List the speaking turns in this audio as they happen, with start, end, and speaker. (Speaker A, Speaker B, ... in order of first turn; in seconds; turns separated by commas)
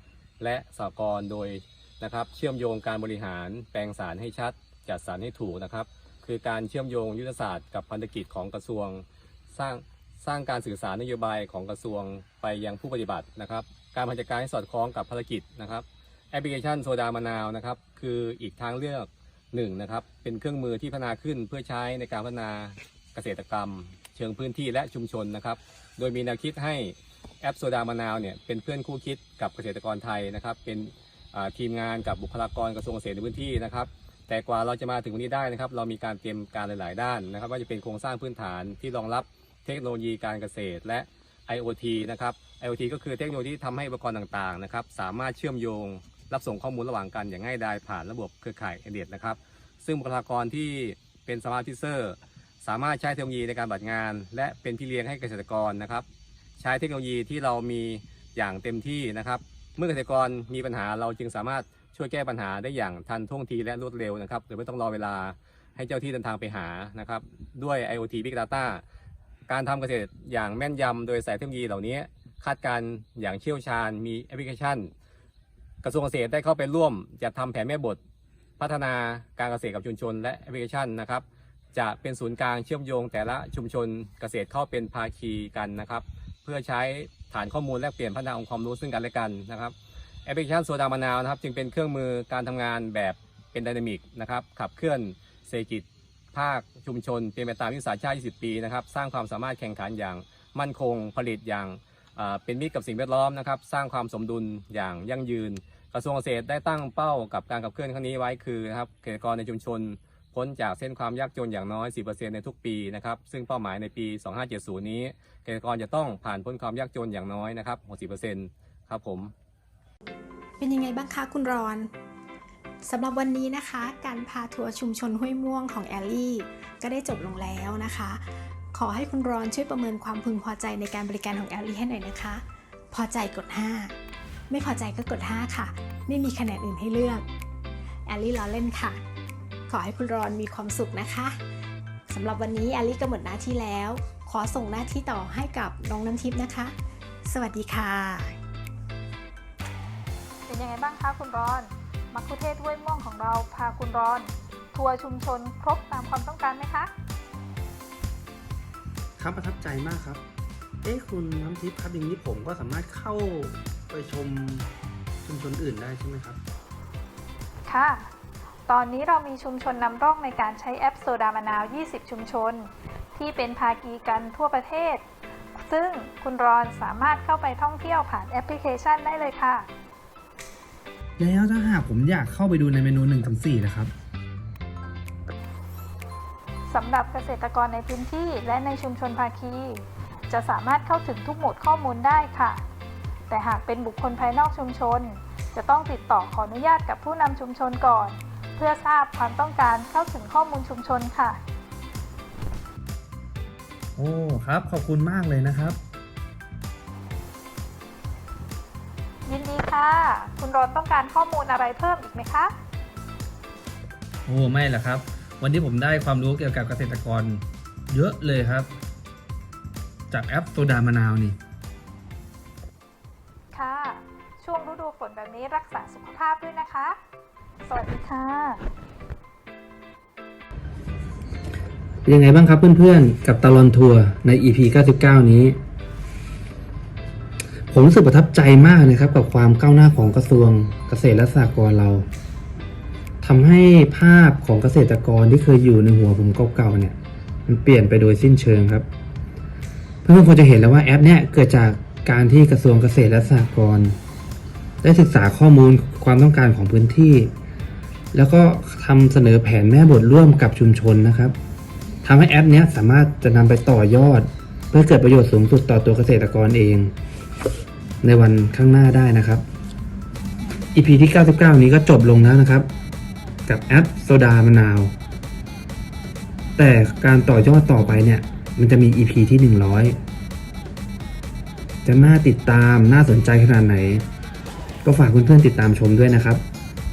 Speaker A: 0.4-56.0, Speaker A: 56.6-68.8, Speaker A: 69.5-74.9, Speaker A: 75.8-78.0, Speaker A: 78.6-89.7, Speaker A: 90.2-119.3, Speaker B: 120.6-121.9, Speaker B: 122.8-134.0, Speaker B: 134.5-137.2, Speaker B: 138.1-139.0, Speaker B: 139.7-141.4, Speaker B: 142.1-146.7, Speaker B: 147.2-148.4, Speaker C: 150.5-156.9, Speaker D: 159.2-160.2, Speaker D: 160.8-164.7, Speaker D: 165.2-166.4, Speaker C: 167.7-168.1, Speaker C: 168.7-175.0, Speaker C: 175.6-179.7, Speaker D: 181.2-183.9, Speaker C: 186.7-192.6, Speaker C: 193.3-201.4, Speaker D: 204.0-205.8, Speaker C: 209.3-212.5, Speaker D: 214.2-218.7, Speaker D: 220.1-221.4, Speaker C: 223.5-227.0, Speaker C: 227.7-228.7, Speaker D: 232.0-235.6, Speaker D: 237.7-242.1, Speaker D: 243.2-248.8, Speaker D: 250.0-254.0, Speaker D: 254.8-257.3, Speaker D: 258.1-261.3, Speaker D: 262.0-266.9, Speaker D: 268.0-269.4, Speaker D: 270.7-272.7, Speaker D: 273.5-274.9, Speaker D: 276.6-280.0, Speaker D: 281.8-284.0, Speaker D: 284.8-286.4